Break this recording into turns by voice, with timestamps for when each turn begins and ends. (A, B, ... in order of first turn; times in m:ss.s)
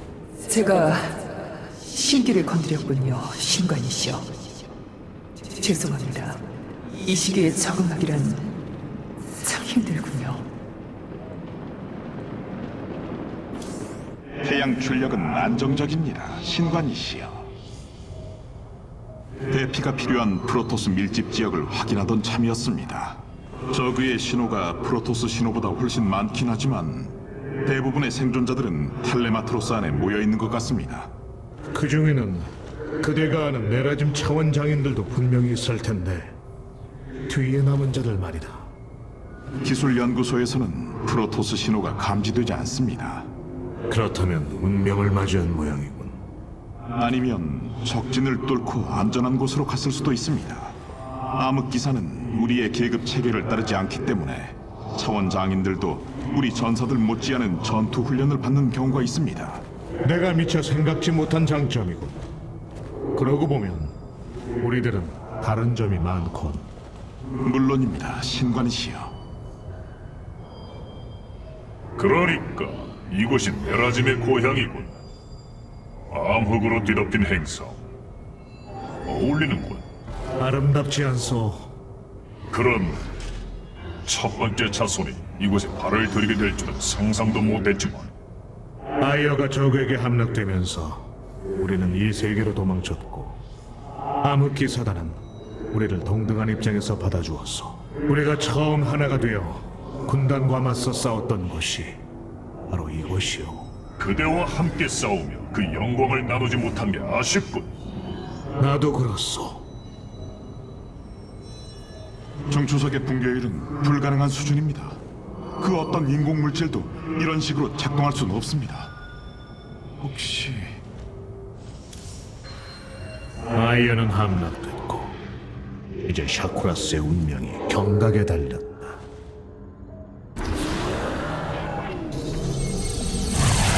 0:00.5-0:04.3 A
0:05.5-0:06.4 A
0:07.0-0:08.5 A
0:09.4-0:10.5 A
0:14.4-0:17.5 B
0:19.5-0:31.1 B
0:31.7-0:36.3 C
0:37.3-0:38.6 C
0:39.6-0:43.3 B
0:43.9-0:46.2 C
0:47.0-0:50.8 B
0:51.3-0:59.6 B
1:00.0-1:02.2 C
1:03.1-1:03.9 C
1:04.6-1:06.7 C
1:07.4-1:09.1 B
1:12.0-1:14.9 D
1:16.1-1:17.8 D
1:19.0-1:19.8 D
1:20.4-1:21.7 C
1:22.5-1:23.0 D
1:24.1-1:28.1 D
1:29.0-1:33.4 C
1:34.2-1:42.0 C
1:42.7-1:43.7 C
1:44.0-1:47.7 D
1:48.6-1:49.6 C
1:52.5-1:55.0 B
1:55.6-1:58.9 B
2:00.0-2:00.8 B
2:03.5-2:05.2 C
2:06.0-2:09.0 C